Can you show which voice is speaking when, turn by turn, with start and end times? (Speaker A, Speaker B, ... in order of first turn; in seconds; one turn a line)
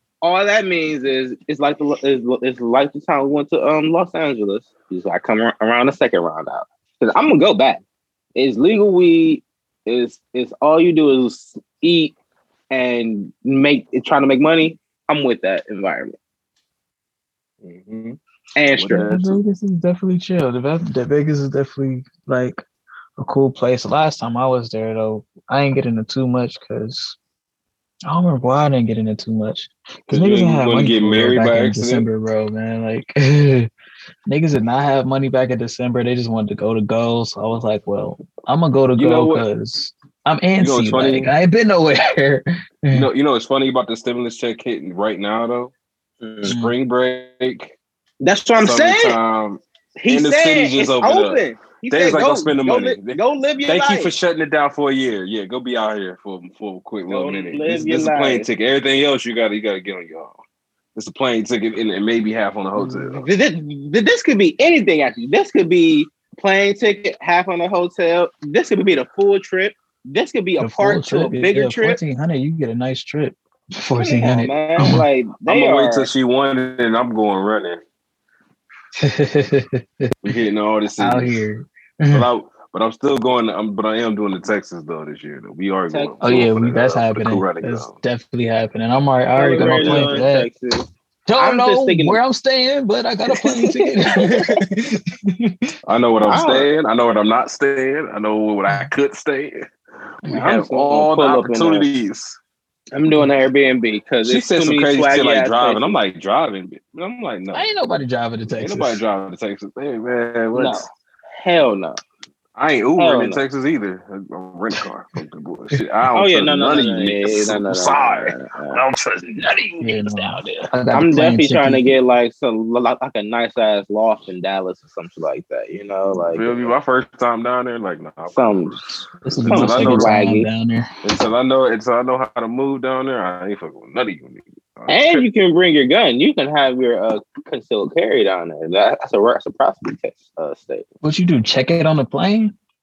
Speaker A: 0.2-7.8
Speaker A: 8.4-12.2
Speaker A: 12.7-16.2
Speaker B: 17.6-18.2
Speaker A: 18.6-19.1
Speaker B: 18.7-19.4
Speaker C: 19.0-22.6
Speaker C: 23.2-27.2
Speaker C: 28.1-33.7
Speaker B: 30.1-32.1
Speaker C: 34.3-43.1
Speaker B: 39.0-39.5
Speaker B: 40.6-41.3
Speaker B: 42.9-45.7
Speaker A: 46.2-46.5
Speaker B: 46.4-47.8
Speaker C: 46.5-46.8
Speaker A: 48.2-49.2
Speaker B: 48.6-60.4
Speaker A: 50.0-54.1
Speaker A: 57.1-58.5
Speaker B: 61.0-63.3
Speaker A: 63.2-72.0
Speaker C: 70.6-75.0
Speaker A: 74.0-76.1
Speaker B: 75.5-77.8
Speaker C: 79.0-80.1
Speaker B: 80.2-81.5
Speaker C: 81.0-82.3
Speaker B: 82.1-88.0
Speaker A: 85.9-86.5
Speaker C: 86.2-90.5
Speaker A: 89.4-92.2
Speaker B: 89.5-90.2
Speaker C: 91.3-95.7
Speaker A: 93.3-94.5
Speaker B: 95.9-99.7
Speaker A: 96.3-96.7
Speaker B: 100.2-102.4
Speaker A: 100.3-101.9
Speaker A: 102.9-106.0
Speaker B: 104.2-107.7
Speaker C: 107.5-109.0
Speaker B: 108.5-110.9
Speaker A: 110.5-112.0
Speaker B: 112.6-120.7
Speaker A: 113.0-113.4
Speaker A: 116.2-118.8
Speaker C: 119.8-122.0
Speaker A: 120.9-126.7
Speaker B: 126.3-130.2
Speaker A: 128.3-128.8
Speaker C: 129.2-130.9
Speaker A: 129.5-130.5
Speaker B: 131.0-135.2
Speaker A: 134.9-140.8
Speaker C: 141.0-142.5